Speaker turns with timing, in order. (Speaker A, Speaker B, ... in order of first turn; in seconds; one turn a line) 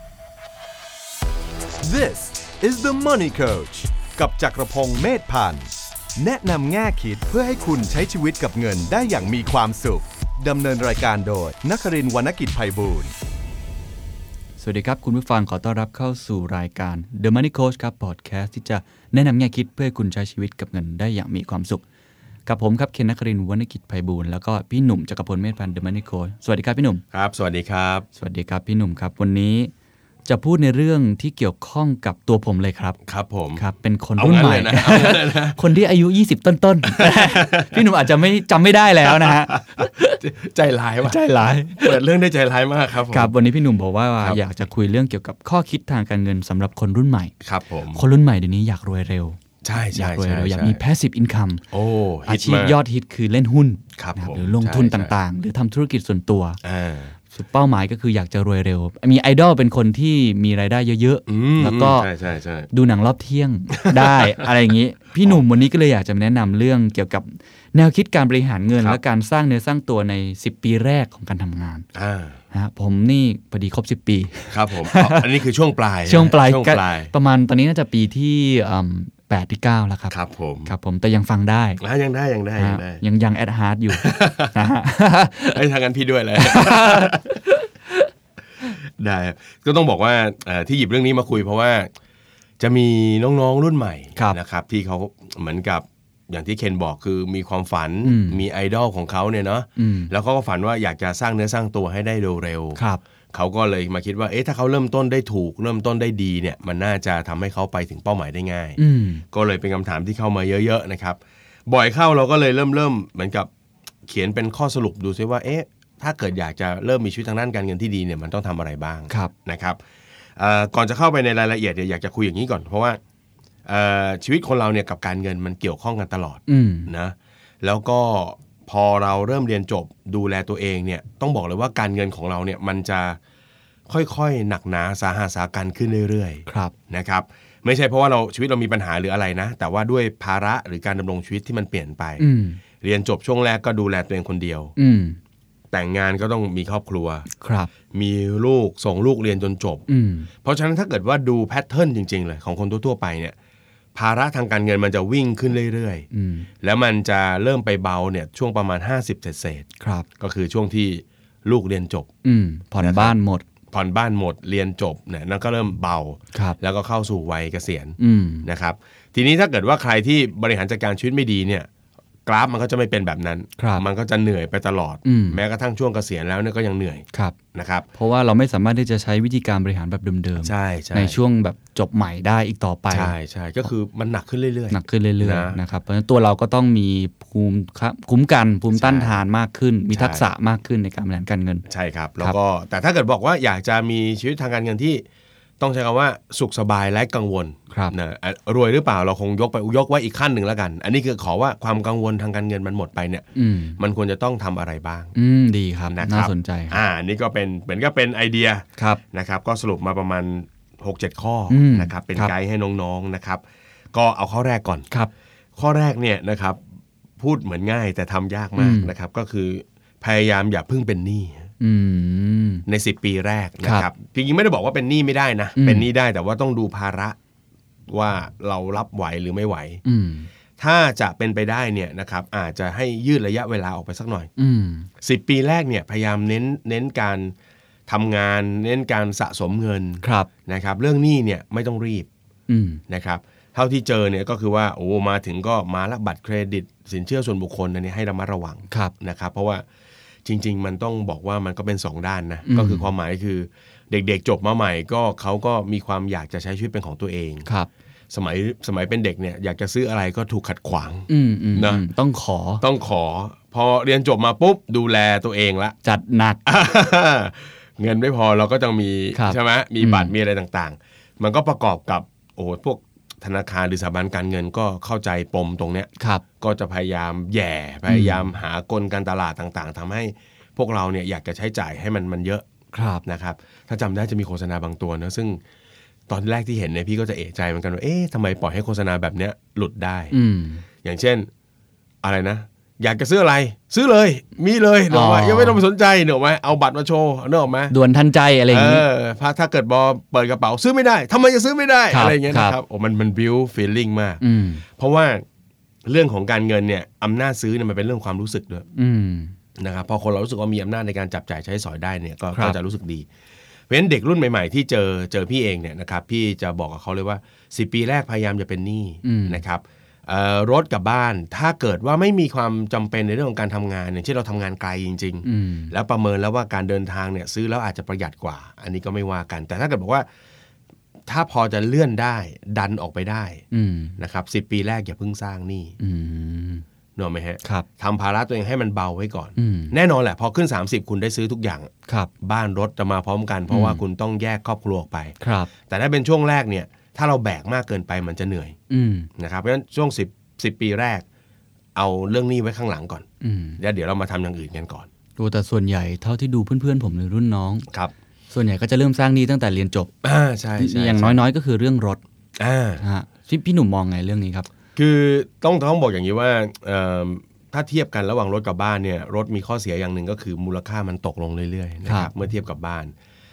Speaker A: 1.8-13.1
Speaker B: 14.6-21.8
Speaker B: 22.5-27.0
Speaker C: 27.1-28.1
Speaker B: 28.2-29.7
Speaker B: 30.3-33.0
Speaker C: 33.1-33.6
Speaker B: 33.6-40.2
Speaker C: 34.2-35.6
Speaker C: 36.9-37.9
Speaker C: 39.0-41.2
Speaker B: 41.0-42.0
Speaker C: 41.8-43.3
Speaker B: 43.1-47.3
Speaker C: 47.4-48.0
Speaker B: 47.9-51.6
Speaker C: 49.6-50.8
Speaker C: 51.7-52.8
Speaker B: 52.3-56.6
Speaker C: 54.0-55.1
Speaker C: 56.6-57.1
Speaker B: 57.3-62.1
Speaker C: 61.3-62.7
Speaker B: 62.7-71.8
Speaker C: 63.8-64.5
Speaker C: 71.9-72.4
Speaker B: 72.5-75.3
Speaker C: 74.5-77.1
Speaker B: 76.1-80.2
Speaker C: 80.1-80.7
Speaker B: 80.7-81.8
Speaker C: 81.8-83.0
Speaker B: 82.6-85.6
Speaker C: 83.9-84.6
Speaker C: 85.5-87.4
Speaker B: 86.4-88.0
Speaker C: 88.8-91.9
Speaker C: 92.6-102.8
Speaker B: 98.0-98.4
Speaker B: 99.8-100.1
Speaker B: 102.8-103.0
Speaker C: 103.3-108.8
Speaker B: 108.8-109.2
Speaker C: 109.3-113.5
Speaker C: 114.1-119.8
Speaker C: 120.4-123.0
Speaker C: 123.7-133.2
Speaker B: 126.5-126.9
Speaker C: 133.9-142.2
Speaker B: 136.5-136.7
Speaker B: 142.2-142.6
Speaker C: 142.8-144.7
Speaker B: 144.8-145.2
Speaker C: 145.7-147.3
Speaker B: 147.3-147.7
Speaker C: 147.9-153.3
Speaker B: 149.9-150.3
Speaker C: 153.9-156.1
Speaker B: 156.1-156.5
Speaker C: 156.6-159.7
Speaker B: 159.8-160.1
Speaker C: 160.2-162.1
Speaker B: 162.2-163.4
Speaker C: 162.8-163.2
Speaker C: 163.7-171.7
Speaker B: 168.0-168.5
Speaker C: 172.3-177.9
Speaker B: 173.6-173.8
Speaker B: 175.1-175.4
Speaker B: 177.9-183.2
Speaker C: 180.4-181.2
Speaker C: 182.9-185.6
Speaker B: 184.7-191.7
Speaker C: 188.8-189.2
Speaker C: 189.9-190.3
Speaker C: 191.7-195.0
Speaker C: 195.6-203.3
Speaker B: 203.3-203.8
Speaker C: 203.8-205.1
Speaker B: 205.2-206.8
Speaker C: 205.9-214.9
Speaker B: 211.5-212.3
Speaker C: 215.6-216.6
Speaker C: 217.2-221.5
Speaker B: 218.6-218.9
Speaker B: 221.6-222.7
Speaker C: 222.7-227.2
Speaker B: 223.6-223.9
Speaker B: 225.6-225.9
Speaker C: 227.9-229.8
Speaker B: 229.8-230.3
Speaker C: 230.6-234.3
Speaker B: 234.4-234.9
Speaker C: 235.0-237.3
Speaker C: 237.9-242.1
Speaker B: 240.0-240.3
Speaker B: 242.5-242.8
Speaker C: 242.9-249.7
Speaker C: 250.2-257.5
Speaker B: 252.5-252.9
Speaker C: 258.1-261.8
Speaker B: 261.1-262.6
Speaker C: 262.6-265.8
Speaker B: 265.8-266.4
Speaker C: 266.4-282.4
Speaker B: 269.1-270.1
Speaker B: 277.9-278.3
Speaker B: 282.7-283.0
Speaker C: 283.1-285.4
Speaker C: 286.1-290.1
Speaker B: 290.1-290.6
Speaker C: 290.8-291.3
Speaker C: 292.0-297.8
Speaker B: 294.9-295.6
Speaker B: 297.7-298.9
Speaker C: 298.5-305.2
Speaker B: 301.9-302.6
Speaker B: 304.2-304.6
Speaker C: 305.9-308.6
Speaker B: 308.8-309.3
Speaker C: 309.6-313.1
Speaker C: 313.7-330.1
Speaker B: 319.0-319.4
Speaker B: 325.2-325.7
Speaker C: 331.1-333.4
Speaker B: 333.5-334.0
Speaker C: 334.0-335.8
Speaker B: 335.8-336.6
Speaker C: 337.0-348.6
Speaker B: 339.4-339.8
Speaker B: 343.5-343.8
Speaker B: 345.2-345.5
Speaker B: 348.7-349.1
Speaker C: 349.2-351.1
Speaker C: 351.8-353.1
Speaker B: 353.2-353.6
Speaker C: 353.6-354.9
Speaker B: 355.2-357.7
Speaker B: 358.3-359.9
Speaker C: 360.0-361.2
Speaker B: 360.6-362.0
Speaker C: 362.4-362.8
Speaker B: 362.8-364.5
Speaker C: 364.8-372.9
Speaker B: 371.9-372.1